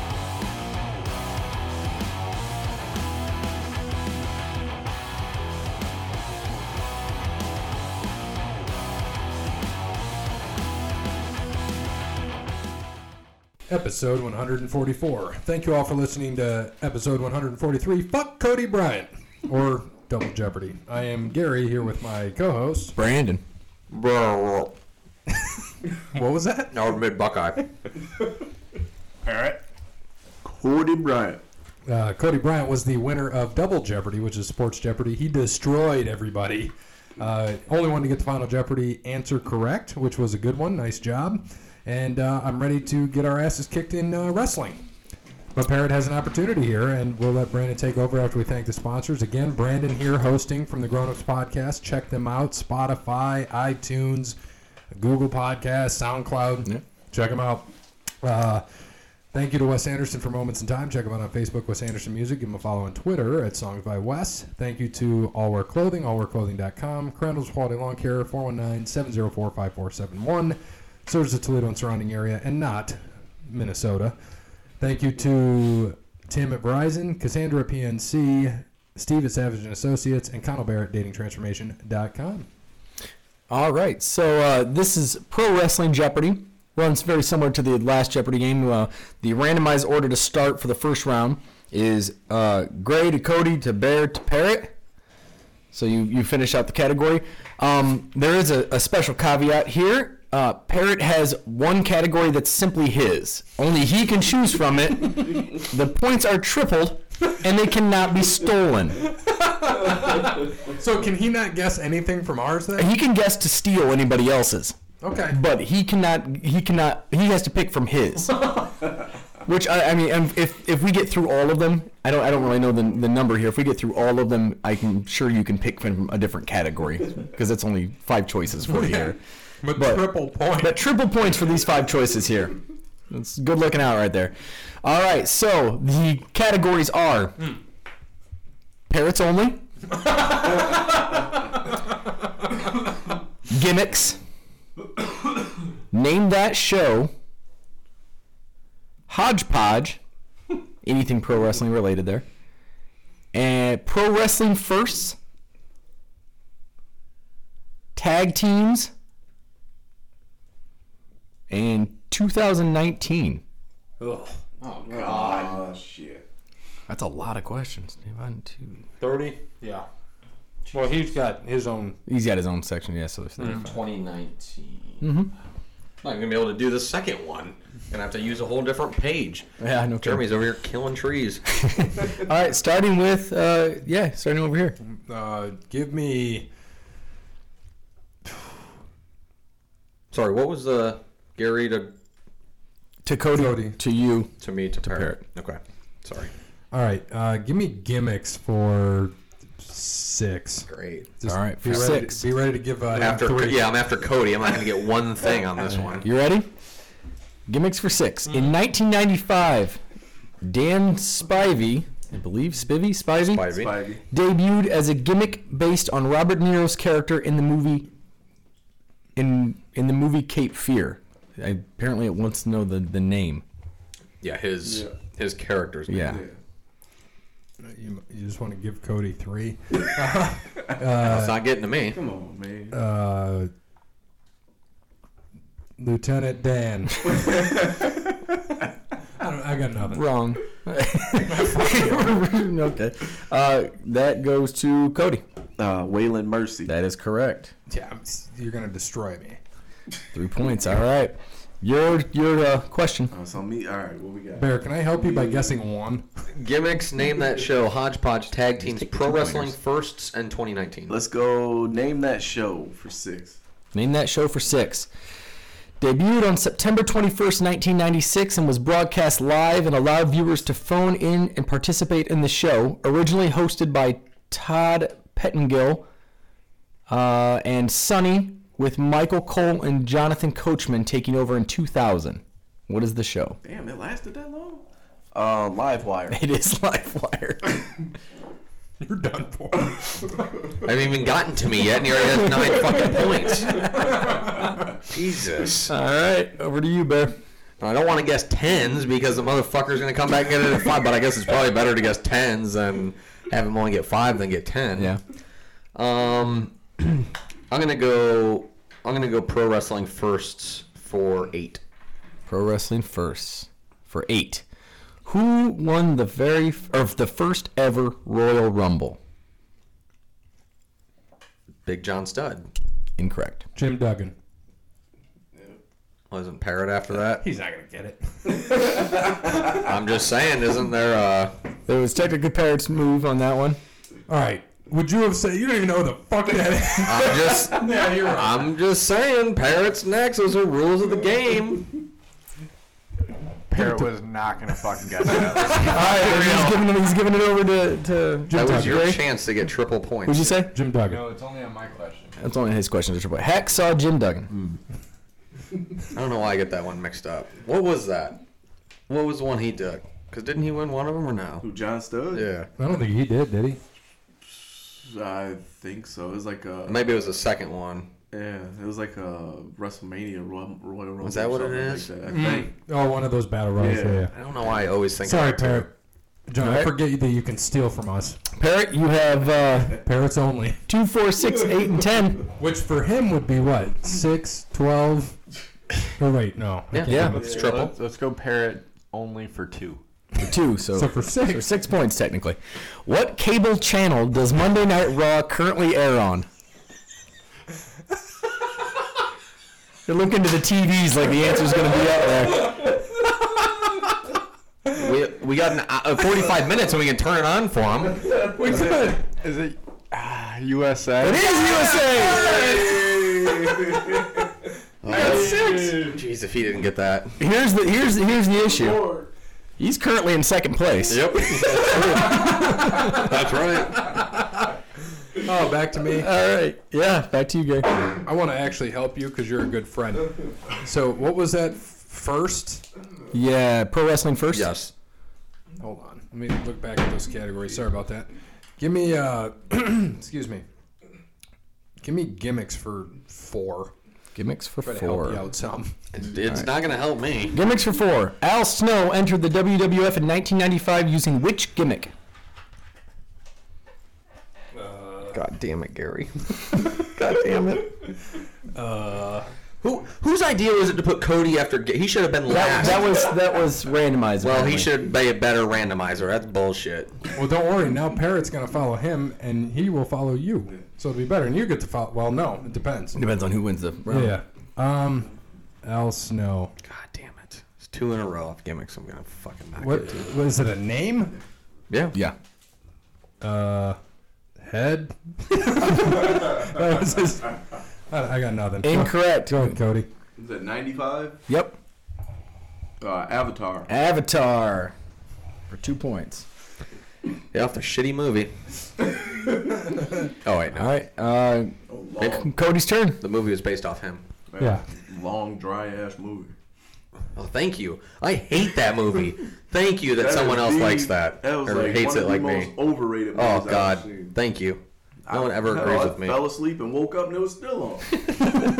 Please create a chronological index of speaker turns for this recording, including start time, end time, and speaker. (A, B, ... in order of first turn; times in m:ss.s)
0:13.7-0:23.0 A
0:23.0-0:23.4 B
0:23.9-0:24.8 C
0:26.1-0:26.9 A
0:26.7-0:27.6 C
0:29.2-0:29.6 D
0:30.4-0:31.4 E
0:31.9-0:44.8 A
0:45.6-0:54.4 A
0:54.9-0:57.7 A
0:58.2-0:58.6 A
0:59.3-1:14.2 A
1:14.8-1:22.5 A
1:23.5-1:34.7 B
1:35.7-1:49.1 B
1:49.2-1:52.9 A
1:52.8-1:54.8 B
1:55.0-1:55.4 A
1:55.3-1:58.7 B
1:59.4-2:09.2 B
2:08.7-2:10.8 A
2:09.8-2:12.6 B
2:13.1-2:17.5 B
2:18.9-2:19.6 B
2:23.5-2:24.2 B
2:25.9-2:27.1 B
2:29.1-2:30.0 B
2:30.8-2:32.2 B
2:33.3-2:35.2 B
2:38.0-2:38.9 B
2:41.5-2:43.4 B
2:44.0-2:44.4 A
2:44.8-2:46.2 E
2:45.0-2:45.4 C
2:46.9-2:48.8 B
2:49.0-2:49.8 A
2:50.7-2:52.0 A
2:52.1-2:53.8 B
2:53.4-2:55.1 C
2:55.0-2:55.3 B
2:56.0-2:59.5 C
2:59.6-3:00.2 B
3:00.0-3:01.5 C
3:01.6-3:04.8 B
3:04.8-3:06.5 A
3:10.1-3:11.9 C
3:13.0-3:14.3 B
3:13.3-3:13.8 A
3:14.4-3:16.3 C
3:14.9-3:15.2 B
3:16.7-3:23.7 A
3:20.7-3:21.1 C
3:21.3-3:22.2 B
3:21.7-3:21.9 C
3:22.9-3:26.1 C
3:26.0-3:26.5 B
3:27.5-3:29.8 B
3:30.4-3:33.5 B
3:33.2-3:33.8 C
3:33.5-3:34.0 E
3:34.1-3:37.9 B
3:39.2-3:43.4 B
3:44.2-3:46.2 C
3:44.6-3:44.9 E
3:45.9-3:46.2 B
3:46.1-3:46.4 E
3:47.6-3:51.4 A
3:50.9-3:52.0 C
3:51.9-3:52.8 E
3:52.7-3:53.5 A
3:55.8-3:57.7 A
3:59.2-4:00.1 A
3:59.9-4:05.2 B
4:01.2-4:02.2 A
4:05.6-4:06.7 E
4:06.7-4:07.5 B
4:07.7-4:09.4 A
4:10.1-4:13.1 B
4:13.1-4:15.6 E
4:14.4-4:16.0 A
4:16.3-4:21.0 C
4:18.6-4:19.5 B
4:20.9-4:23.4 E
4:23.7-4:24.9 B
4:25.8-4:35.8 B
4:36.9-4:43.4 B
4:43.4-4:46.2 E
4:46.1-4:47.6 B
4:48.8-4:50.2 A
4:50.6-4:53.8 C
4:54.8-4:55.7 C
4:55.6-4:57.2 B
4:57.6-5:05.0 C
5:04.8-5:05.0 B
5:05.7-5:11.6 C
5:12.3-5:14.4 B
5:15.0-5:19.0 B
5:21.6-5:22.5 C
5:23.0-5:23.4 B
5:23.5-5:24.1 A
5:26.1-5:27.2 C
5:27.2-5:28.8 A
5:29.4-5:31.4 C
5:31.7-5:33.6 B
5:34.1-5:37.5 A
5:36.8-5:41.8 C
5:37.6-5:38.4 D
5:43.5-5:45.8 D
5:43.5-5:43.9 A
5:45.5-5:46.6 C
5:45.5-5:49.0 B
5:48.3-5:48.9 A
5:48.3-5:50.4 C
5:50.0-5:50.5 B
5:50.5-5:51.1 A
5:50.8-5:52.1 D
5:52.2-5:54.3 B
5:55.9-5:58.2 C
5:58.9-6:01.4 C
6:01.4-6:02.3 E
6:02.1-6:02.5 C
6:02.6-6:03.6 A
6:04.8-6:06.9 E
6:06.6-6:07.9 C
6:08.1-6:12.5 E
6:11.0-6:11.9 C
6:12.1-6:14.1 A
6:13.6-6:14.1 E
6:14.1-6:15.7 C
6:15.0-6:15.7 A
6:16.3-6:18.2 A
6:16.4-6:16.7 B
6:18.3-6:19.8 B
6:19.8-6:20.6 A
6:20.7-6:22.3 B
6:22.4-6:25.2 A
6:26.0-6:27.3 A
6:26.7-6:27.8 C
6:26.9-6:27.2 B
6:27.1-6:29.8 D
6:30.2-6:36.3 B
6:30.7-6:31.6 A
6:39.8-6:42.7 B
6:44.7-6:48.2 C
6:48.3-6:53.1 D
6:48.3-6:49.0 A
6:51.0-6:52.6 B
6:52.2-6:54.2 E
6:54.8-6:57.2 C
6:54.9-6:56.0 D
6:57.2-6:58.8 B
6:58.4-6:59.1 E
6:59.6-7:03.1 B
7:00.9-7:04.0 C
7:05.1-7:06.1 A
7:06.0-7:07.8 B
7:08.0-7:12.6 A
7:13.1-7:14.5 B
7:14.3-7:14.7 C
7:15.6-7:20.4 A
7:21.8-7:23.7 A
7:24.1-7:25.2 B
7:24.6-7:25.7 A
7:25.9-7:27.4 C
7:27.3-7:31.9 B
7:34.6-7:35.2 A
7:35.1-7:37.9 C
7:38.5-7:39.3 A
7:39.6-7:43.0 C
7:42.3-7:44.8 B
7:44.2-7:47.0 C
7:47.1-7:53.0 A
7:52.9-7:54.2 B
7:53.9-7:56.5 A
7:56.6-8:00.1 C
7:59.6-8:01.2 A
8:01.7-8:02.0 C
8:03.2-8:03.8 A
8:04.4-8:09.9 A
8:08.6-8:09.6 B
8:10.2-8:11.2 E
8:11.3-8:11.6 B
8:12.8-8:13.7 E
8:13.7-8:14.7 B
8:15.5-8:16.2 B
8:17.3-8:18.3 C
8:20.2-8:20.7 C
8:20.5-8:21.6 B
8:21.7-8:22.3 E
8:22.0-8:22.3 C
8:22.2-8:23.0 B
8:23.0-8:24.0 C
8:24.3-8:26.3 E
8:24.4-8:24.6 A
8:27.1-8:32.5 C
8:30.0-8:34.1 E
8:33.1-8:36.2 C
8:35.0-8:38.0 E